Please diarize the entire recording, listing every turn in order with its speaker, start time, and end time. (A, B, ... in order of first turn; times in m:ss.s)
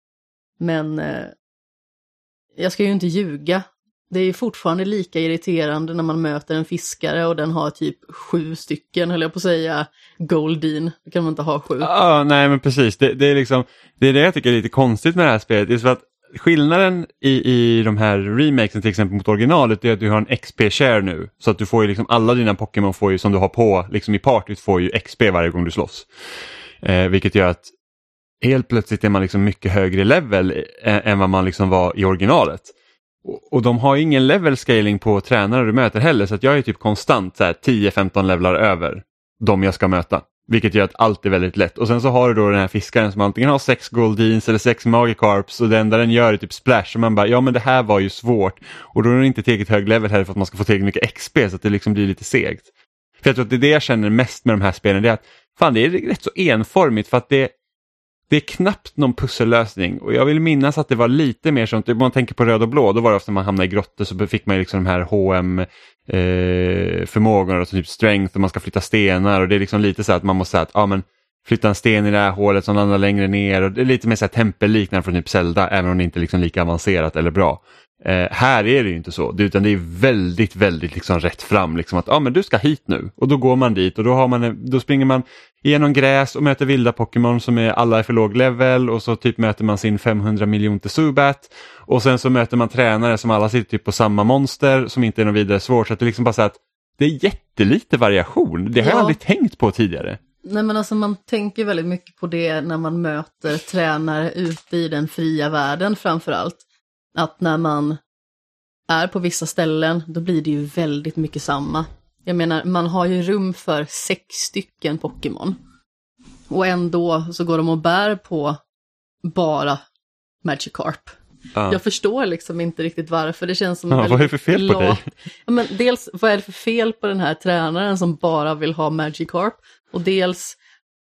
0:00.6-0:01.3 A
0:02.6-0:11.9 A
0:11.8-0:26.1 B
0:26.8-0:27.7 B
0:28.4-0:32.7 B
0:33.2-0:52.7 B
0:53.2-0:57.5 B
0:58.3-1:40.2 B
1:38.8-1:39.2 A
1:40.4-1:46.6 A
1:47.2-1:48.0 A
1:48.9-1:55.6 A
1:56.5-1:58.6 A
1:59.2-1:59.8 A
2:00.4-2:01.2 A
2:01.6-2:01.8 B
2:01.7-2:10.6 A
2:03.9-2:05.1 B